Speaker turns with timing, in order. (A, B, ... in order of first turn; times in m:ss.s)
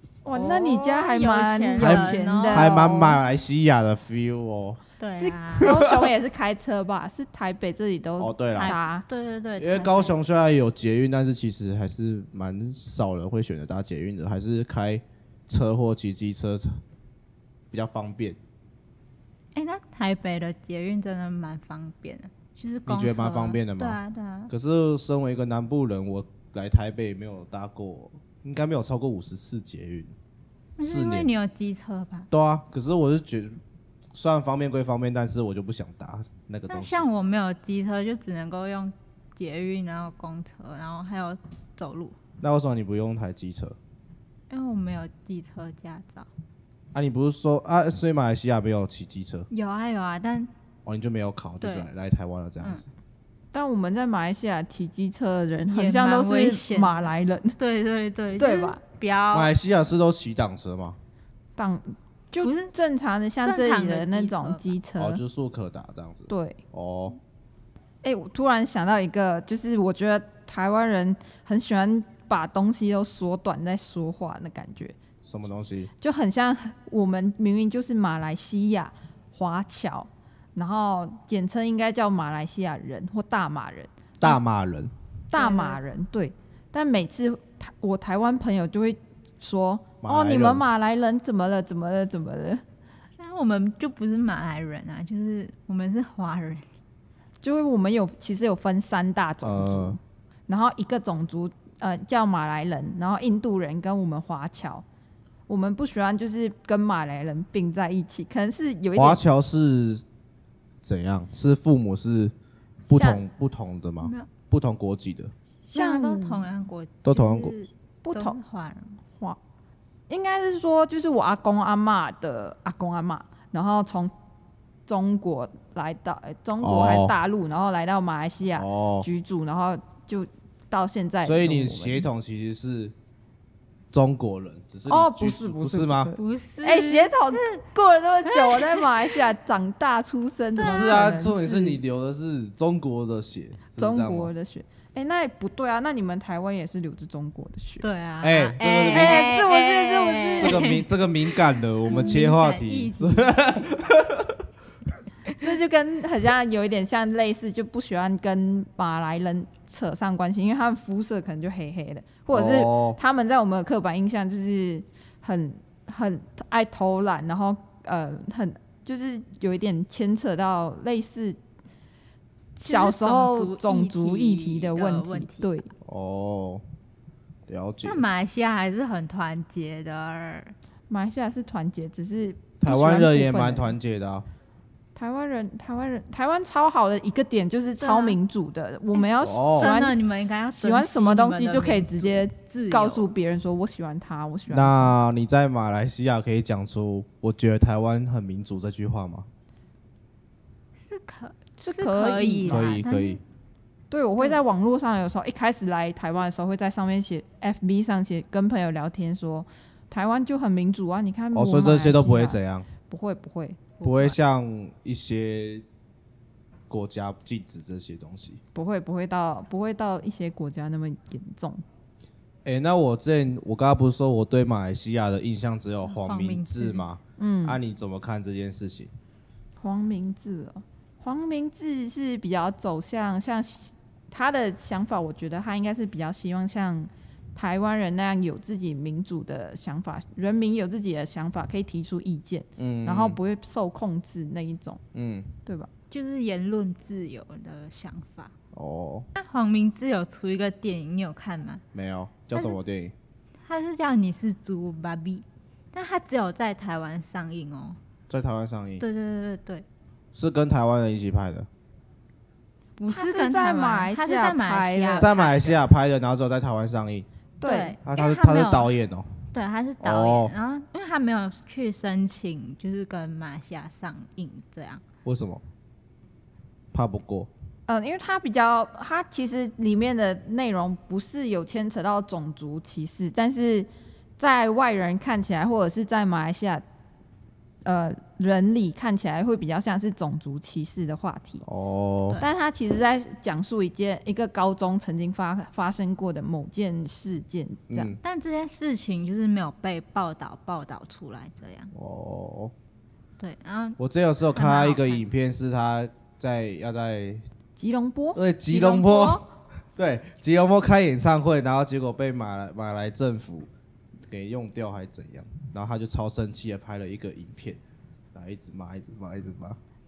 0:00.2-0:03.2 A
0:00.3-0:03.0 B
0:01.8-0:04.8 C
0:05.0-0:05.8 B
0:05.1-0:09.0 A
0:05.6-0:06.1 C
0:08.2-0:08.8 C
0:08.6-0:10.2 B
0:09.6-0:16.8 C
0:17.7-0:18.4 C
0:19.6-0:24.5 B
0:22.9-0:24.0 C
0:24.5-0:30.1 C
0:30.8-0:32.3 B
0:30.8-0:31.3 C
0:32.3-0:33.6 C
0:34.1-0:37.0 C
0:36.7-0:42.2 B
0:42.4-0:43.8 C
0:44.5-0:46.3 B
0:46.9-0:49.5 C
0:49.5-0:50.5 B
0:50.8-0:52.9 C
0:51.6-0:51.9 B
0:53.5-0:57.6 A
0:55.7-0:59.5 B
0:58.4-0:58.8 A
0:59.3-1:01.0 C
1:01.6-1:05.2 A
1:02.4-1:02.7 B
1:03.4-1:04.7 B
1:05.0-1:07.2 C
1:06.3-1:06.6 A
1:08.0-1:15.0 A
1:15.2-1:15.9 C
1:16.0-1:24.4 A
1:24.2-1:24.9 C
1:25.3-1:32.6 A
1:25.3-1:25.8 B
1:30.0-1:30.6 C
1:33.2-1:36.6 B
1:37.4-1:44.8 A
1:39.4-1:40.0 C
1:45.5-1:49.2 A
1:49.0-1:50.0 C
1:50.8-1:52.3 C
1:52.9-1:53.2 A
1:52.9-1:55.3 C
1:54.0-1:54.3 B
1:55.7-1:56.5 A
1:55.7-1:59.0 B
1:57.0-1:57.5 C
1:58.0-1:58.4 A
2:00.1-2:04.1 A
2:04.9-2:12.1 A
2:06.6-2:07.1 C
2:08.6-2:09.1 C
2:11.2-2:13.0 C
2:13.9-2:16.1 C
2:14.9-2:21.8 A
2:16.2-2:17.6 B
2:18.3-2:19.2 B
2:20.6-2:21.2 B
2:20.6-2:24.3 C
2:23.8-2:27.8 A
2:27.8-2:31.4 B
2:28.2-2:29.3 C
2:28.9-2:30.8 A
2:30.4-2:34.4 C
2:31.9-2:33.6 B
2:35.4-2:51.4 A
2:42.3-2:43.0 C
2:52.6-2:55.7 A
2:52.6-2:55.5 B
2:55.8-2:56.6 C
2:57.5-2:58.0 C
2:57.8-3:00.6 B
3:00.9-3:03.8 A
3:02.6-3:04.3 C
3:05.0-3:10.0 A
3:07.8-3:08.2 B
3:09.0-3:13.1 B
3:09.2-3:09.8 C
3:10.6-3:14.9 A
3:14.5-3:19.3 C
3:20.8-3:23.2 B
3:21.6-3:22.8 A
3:22.5-3:23.2 C
3:23.9-3:33.8 A
3:31.3-3:32.7 C
3:33.8-3:35.6 C
3:36.7-3:38.4 C
3:38.5-3:41.6 A
3:42.4-3:48.9 C
3:45.9-3:46.8 B
3:47.2-3:47.6 A
3:49.6-4:04.8 A
4:02.6-4:03.2 C
4:04.9-4:05.3 C
4:05.9-4:08.3 B
4:08.5-4:09.1 C
4:09.2-4:11.6 B
4:11.7-4:12.9 C
4:13.4-4:17.8 B
4:18.1-4:18.8 C
4:18.8-4:19.6 B
4:20.1-4:21.5 C
4:22.8-4:25.6 B
4:22.9-4:25.1 A
4:25.0-4:27.1 C
4:27.4-4:27.8 A
4:27.4-4:28.7 B
4:27.8-4:29.1 C
4:29.3-4:34.8 B
4:29.8-4:30.3 C
4:35.0-4:35.4 C
4:36.7-4:37.3 C
4:37.7-4:43.7 A
4:44.2-4:46.6 A
4:47.6-4:51.4 A
4:51.4-4:52.2 C
4:52.2-4:57.9 A
4:57.7-4:58.0 C
4:58.0-5:01.7 B
5:01.7-5:02.5 C
5:03.2-5:03.8 B
5:03.8-5:07.2 C
5:04.3-5:05.0 B
5:07.6-5:08.2 A
5:08.2-5:09.2 C
5:08.5-5:09.2 B
5:09.8-5:13.5 C
5:14.1-5:17.6 C
5:18.1-5:19.6 C